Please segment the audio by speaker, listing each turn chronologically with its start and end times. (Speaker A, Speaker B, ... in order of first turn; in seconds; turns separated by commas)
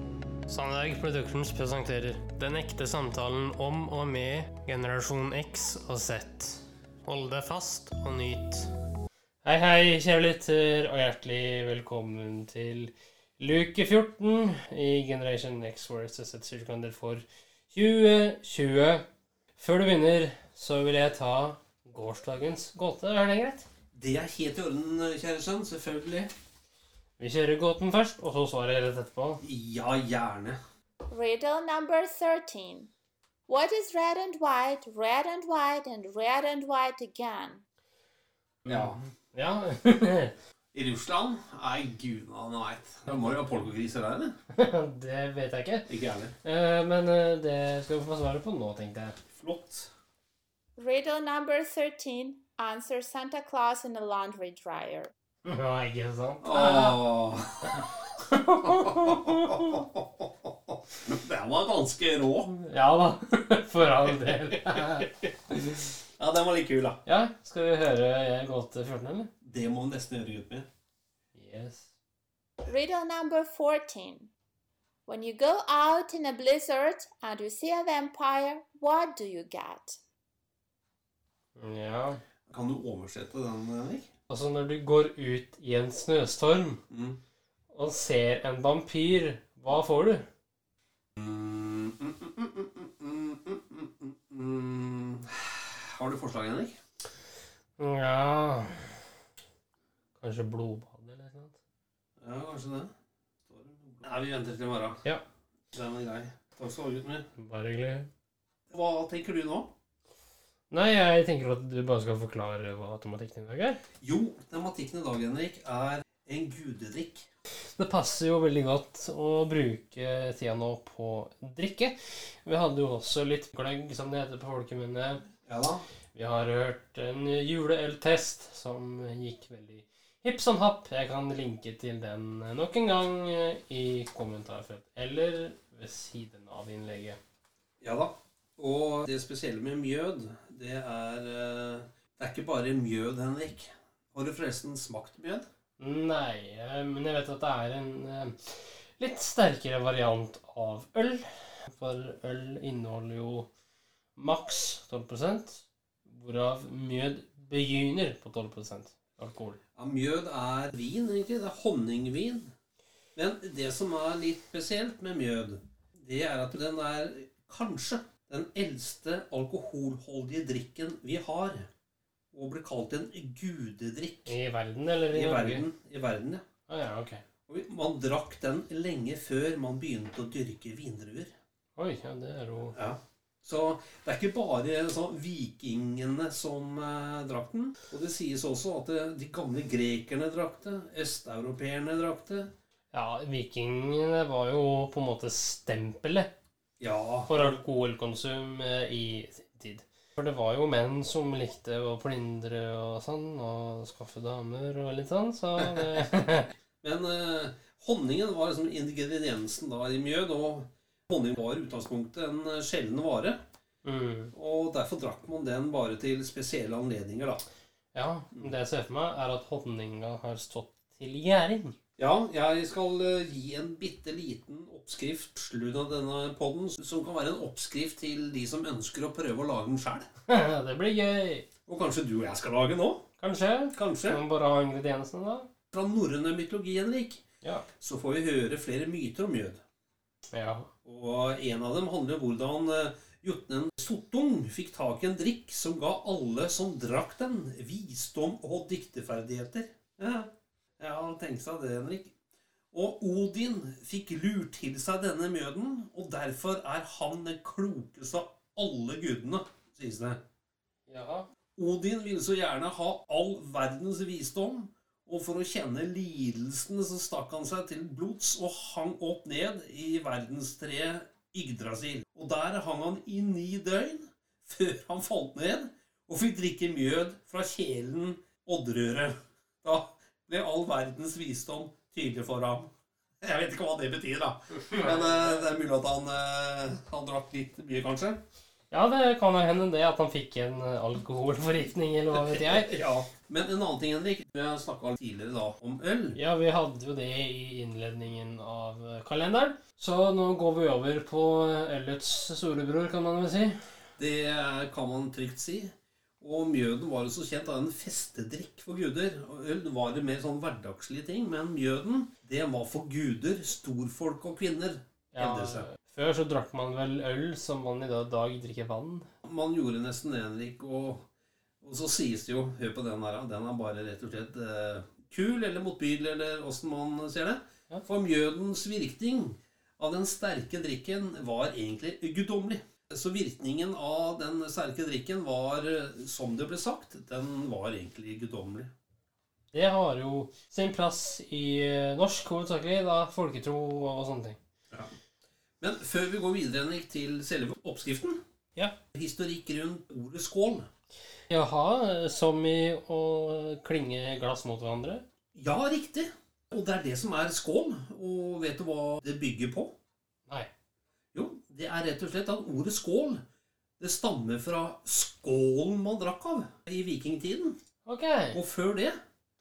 Speaker A: 0.5-8.7, Speaker A: 9.4-19.0, Speaker A: 19.6-23.7, Speaker B: 23.9-26.3, Speaker A: 27.2-29.4, Speaker B: 29.4-30.6, Speaker C: 31.1-32.9, Speaker C: 33.5-37.6, Speaker A: 38.6-40.3, Speaker B: 38.7-39.0, Speaker B: 40.7-44.4, Speaker A: 43.1-43.5, Speaker A: 44.5-49.2, Speaker B: 45.9-46.3, Speaker B: 49.3-49.9, Speaker C: 50.8-55.1, Speaker A: 55.4-57.0, Speaker B: 56.4-57.9, Speaker A: 57.8-59.8, Speaker B: 58.7-62.5, Speaker A: 62.5-65.1, Speaker B: 66.0-67.0, Speaker A: 67.0-69.3, Speaker B: 69.4-70.7, Speaker A: 71.3-71.9, Speaker C: 72.7-74.3, Speaker C: 75.0-80.0, Speaker A: 81.5-82.2, Speaker B: 82.5-84.1, Speaker A: 84.3-86.8, Speaker B: 86.9-87.2, Speaker A: 87.7-90.2, Speaker B: 91.2-96.7, Speaker A: 97.8-98.9, Speaker A: 100.2-101.6, Speaker B: 102.2-102.9, Speaker B: 103.5-105.0, Speaker B: 105.7-107.3, Speaker A: 107.4-108.1, Speaker B: 108.7-109.7, Speaker A: 110.7-113.8, Speaker B: 114.0-117.3, Speaker A: 117.8-125.2, Speaker B: 125.5-125.9, Speaker A: 126.1-137.2, Speaker B: 137.8-145.4, Speaker A: 145.8-153.5, Speaker A: 154.2-159.6, Speaker B: 159.8-162.5, Speaker B: 163.2-171.7, Speaker B: 172.3-174.4, Speaker A: 174.2-175.6, Speaker B: 175.1-176.4, Speaker A: 176.7-177.2, Speaker B: 177.5-181.3, Speaker A: 181.8-182.8, Speaker B: 182.7-192.5, Speaker A: 192.9-196.3, Speaker B: 196.8-197.6, Speaker A: 197.3-206.5, Speaker B: 206.8-213.4, Speaker A: 213.8-214.3, Speaker B: 214.3-217.4, Speaker A: 217.9-221.7, Speaker B: 222.0-230.1, Speaker A: 230.3-231.4, Speaker B: 231.7-233.0, Speaker A: 233.2-235.5, Speaker B: 233.7-234.2, Speaker B: 235.7-237.2, Speaker B: 237.8-239.6, Speaker A: 240.3-240.7, Speaker B: 240.8-252.1, Speaker B: 252.7-260.2, Speaker A: 260.9-261.3, Speaker B: 261.6-282.7, Speaker B: 283.2-288.2, Speaker A: 284.6-285.3, Speaker A: 288.7-292.8, Speaker B: 292.1-296.2, Speaker A: 296.1-303.6, Speaker B: 304.0-315.7, Speaker A: 315.1-319.1, Speaker B: 319.2-321.0, Speaker B: 321.6-338.7, Speaker A: 339.5-344.4, Speaker B: 345.6-348.2, Speaker B: 348.9-350.7, Speaker A: 351.3-355.0, Speaker B: 355.3-359.7, Speaker B: 361.1-363.2, Speaker B: 363.8-367.6, Speaker A: 367.8-368.4, Speaker B: 368.3-368.9